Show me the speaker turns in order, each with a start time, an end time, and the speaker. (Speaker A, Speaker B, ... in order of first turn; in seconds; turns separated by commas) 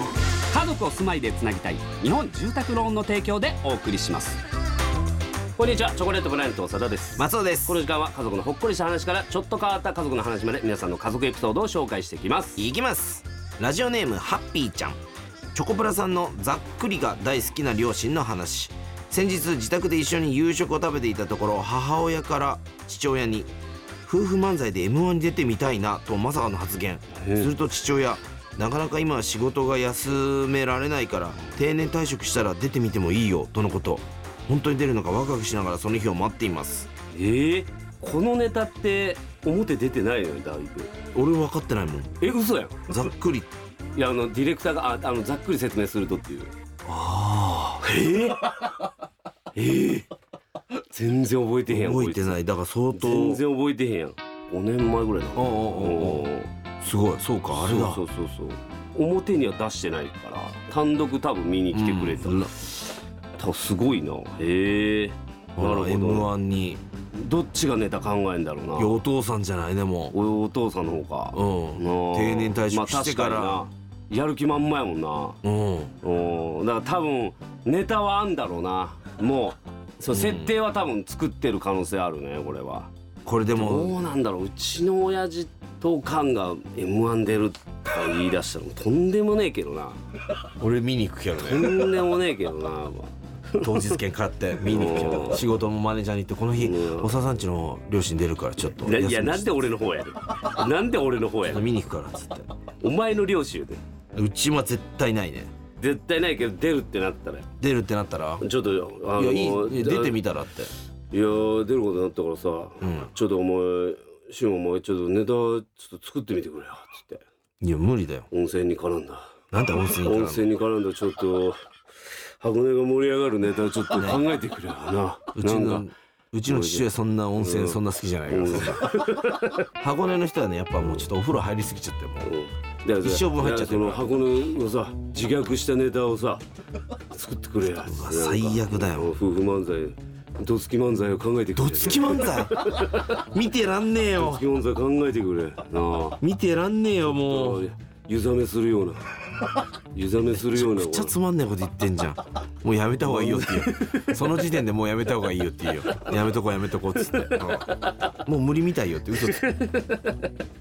Speaker A: 0.5-4.4, Speaker A: 5.6-12.6, Speaker B: 7.2-7.8, Speaker B: 12.6-15.0, Speaker B: 15.5-23.5, Speaker B: 24.0-36.9, Speaker A: 27.1-27.5, Speaker A: 37.1-40.9, Speaker B: 41.1-42.2, Speaker A: 42.2-43.0, Speaker B: 42.9-43.5, Speaker A: 44.0-46.5, Speaker B: 46.8-47.8, Speaker A: 47.8-48.7, Speaker A: 49.5-50.1, Speaker A: 50.9-52.4, Speaker B: 51.7-53.4, Speaker A: 52.9-56.5, Speaker B: 55.4-58.0, Speaker A: 57.5-62.9, Speaker B: 61.7-62.5, Speaker A: 63.4-66.3, Speaker B: 65.5-66.8, Speaker A: 67.1-69.0, Speaker B: 68.8-70.1, Speaker A: 70.1-75.4, Speaker B: 71.3-73.6, Speaker B: 75.4-75.9, Speaker A: 76.0-82.9, Speaker B: 80.1-80.5, Speaker B: 83.2-84.0, Speaker A: 83.5-90.0, Speaker B: 90.6-92.0, Speaker A: 91.4-94.0, Speaker B: 93.6-99.6, Speaker A: 94.6-95.4, Speaker A: 96.6-97.1, Speaker A: 98.7-101.7, Speaker B: 101.4-102.5, Speaker A: 102.8-103.8, Speaker B: 104.2-105.5, Speaker A: 105.8-107.5, Speaker B: 107.6-108.4, Speaker A: 108.4-110.2, Speaker B: 109.2-110.7, Speaker A: 111.1-117.2, Speaker B: 112.8-113.1, Speaker B: 117.6-118.3, Speaker A: 118.3-121.6, Speaker B: 119.5-120.5, Speaker A: 122.4-125.9, Speaker B: 123.9-124.2, Speaker B: 125.3-129.1, Speaker A: 126.5-129.7, Speaker B: 129.8-132.3, Speaker A: 130.8-131.1, Speaker A: 132.2-136.4, Speaker B: 133.0-134.0, Speaker A: 137.1-143.2, Speaker B: 137.9-139.1, Speaker B: 141.6-144.4, Speaker A: 144.1-146.2, Speaker B: 146.2-147.6, Speaker A: 147.1-149.1, Speaker A: 149.9-151.1, Speaker B: 150.3-159.4, Speaker A: 153.0-154.4, Speaker A: 157.0-158.1, Speaker A: 159.2-160.3